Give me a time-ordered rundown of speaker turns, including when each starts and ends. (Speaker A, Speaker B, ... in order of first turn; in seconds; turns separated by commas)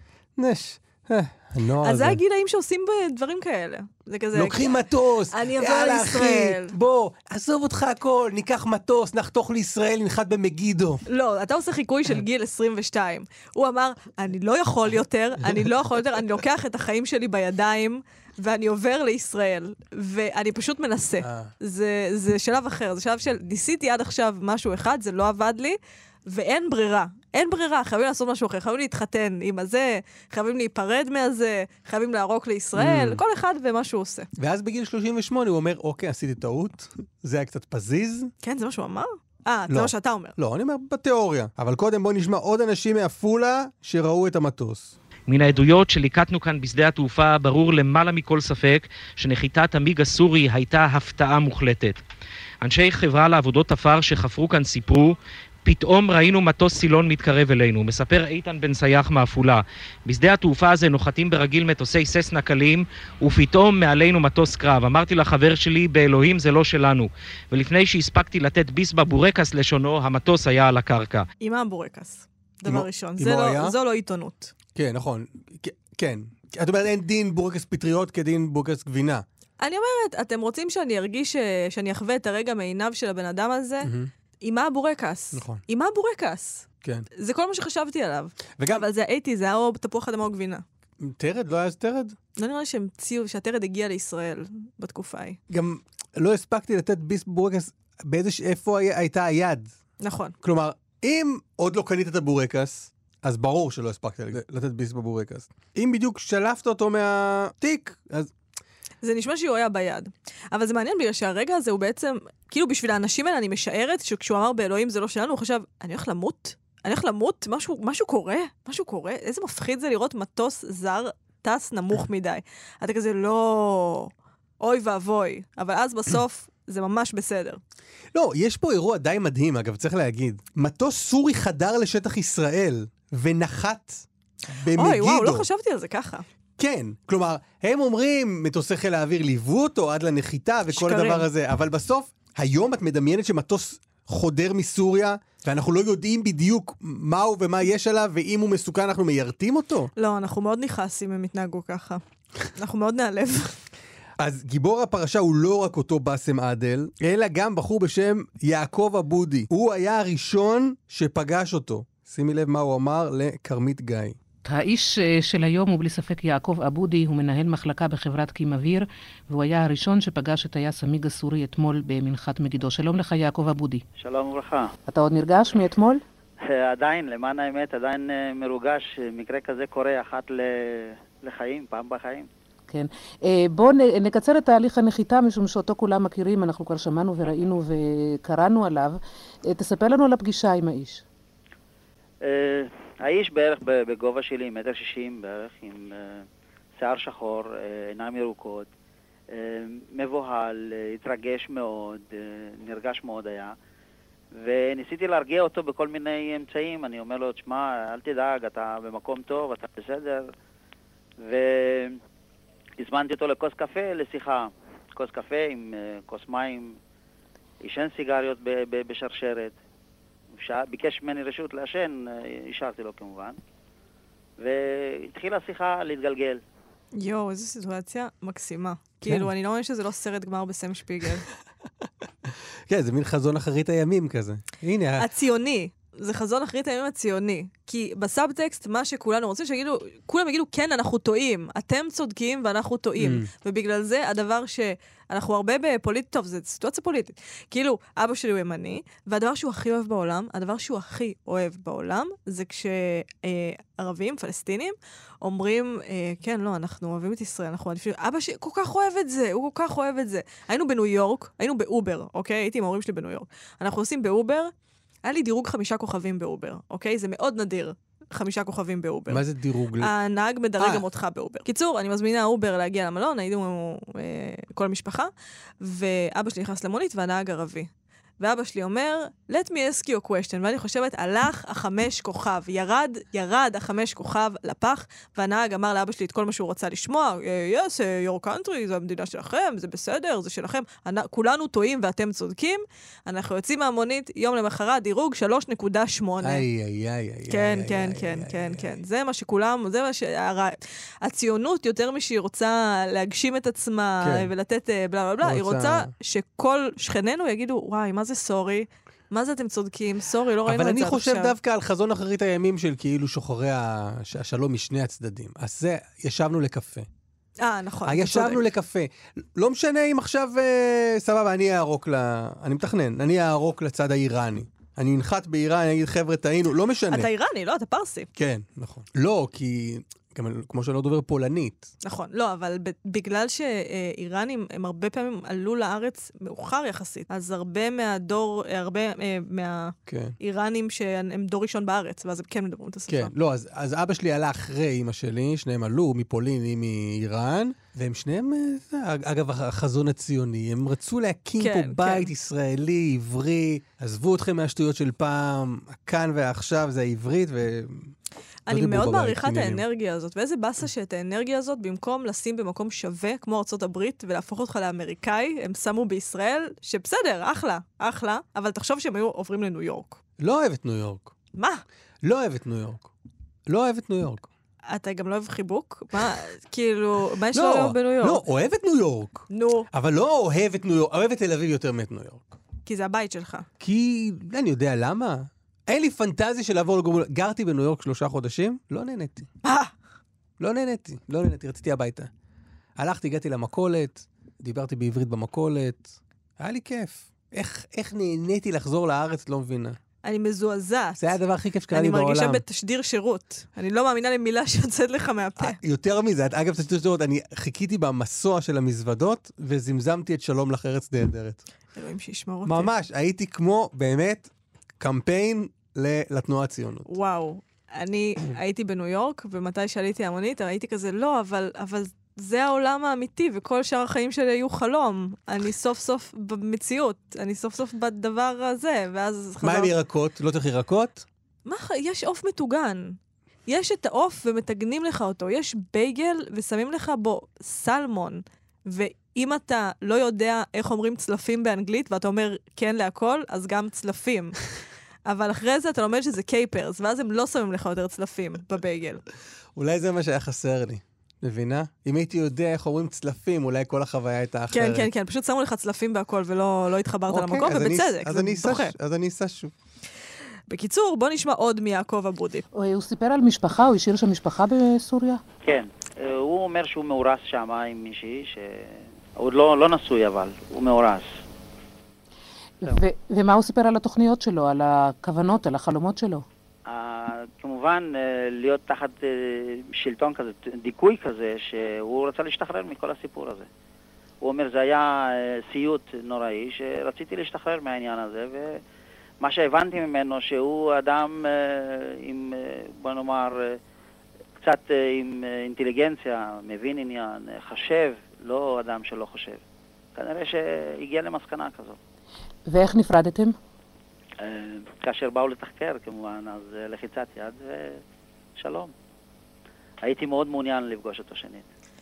Speaker A: 0.4-2.2, Speaker B: 1.8-6.8, Speaker A: 4.3-11.0, Speaker B: 11.1-34.3, Speaker A: 21.2-21.5, Speaker A: 32.8-33.2, Speaker A: 34.4-38.3, Speaker B: 38.4-40.4, Speaker A: 39.7-44.9, Speaker C: 45.3-52.0, Speaker C: 52.6-71.3, Speaker B: 71.4-74.5, Speaker A: 72.7-73.8, Speaker A: 74.8-79.3, Speaker B: 79.6-90.7, Speaker A: 83.8-84.1, Speaker A: 85.3-85.6, Speaker A: 88.6-88.9, Speaker A: 91.0-92.2, Speaker B: 92.4-95.4, Speaker A: 95.5-99.7, Speaker B: 100.0-100.4, Speaker A: 100.4-108.3, Speaker B: 109.0-127.6, Speaker A: 128.1-135.5, Speaker B: 134.7-136.2, Speaker A: 136.6-149.9, Speaker B: 140.7-141.3, Speaker B: 150.0-152.0, Speaker B: 152.6-153.6, Speaker A: 154.2-164.2, Speaker D: 164.4-173.8, Speaker E: 174.0-174.7, Speaker D: 174.9-176.0, Speaker E: 176.4-182.3, Speaker D: 182.7-191.0, Speaker E: 192.2-196.3, Speaker E: 196.8-198.7, Speaker E: 199.3-203.6, Speaker E: 204.3-210.3, Speaker E: 211.2-212.0, Speaker E: 212.8-216.8, Speaker E: 217.6-219.6, Speaker E: 220.3-223.4, Speaker E: 224.4-226.4, Speaker B: 226.9-231.3, Speaker A: 232.7-235.1, Speaker B: 235.0-264.5, Speaker A: 243.0-243.3, Speaker B: 265.1-269.2, Speaker A: 269.1-269.9, Speaker B: 269.8-296.4, Speaker A: 270.6-270.9, Speaker A: 296.2-298.8, Speaker B: 297.3-311.4, Speaker A: 304.0-304.3, Speaker A: 305.2-305.9, Speaker A: 310.5-316.9, Speaker B: 317.4-318.4, Speaker A: 317.9-327.1, Speaker B: 326.9-328.1, Speaker A: 328.2-331.7, Speaker B: 331.8-343.1, Speaker A: 339.9-340.2, Speaker A: 342.9-357.9, Speaker B: 351.4-352.1, Speaker B: 358.5-370.0, Speaker A: 358.5-359.6, Speaker A: 370.2-371.1, Speaker B: 371.3-371.6, Speaker A: 372.0-372.9, Speaker A: 373.5-374.3, Speaker B: 374.7-378.2, Speaker A: 377.3-382.4, Speaker B: 379.3-379.7, Speaker B: 382.7-383.5, Speaker A: 383.6-389.3, Speaker B: 389.4-389.7, Speaker A: 390.4-392.1, Speaker A: 392.8-399.8, Speaker B: 400.0-401.1, Speaker A: 401.0-402.4, Speaker B: 401.7-405.6, Speaker A: 405.4-411.4, Speaker B: 411.8-412.7, Speaker A: 412.4-417.0, Speaker B: 416.9-429.7, Speaker A: 429.4-431.1, Speaker B: 431.5-444.4, Speaker B: 445.1-449.0, Speaker A: 449.6-454.9, Speaker B: 454.5-458.7, Speaker A: 457.1-459.5, Speaker B: 460.5-462.5, Speaker D: 462.5-465.2, Speaker E: 465.4-471.2, Speaker D: 472.6-476.2, Speaker E: 476.7-483.5, Speaker E: 484.2-488.6, Speaker E: 489.2-493.6, Speaker E: 494.4-499.4, Speaker E: 500.0-501.8, Speaker D: 502.5-503.4, Speaker E: 504.2-507.8, Speaker E: 508.4-508.7, Speaker E: 509.8-511.5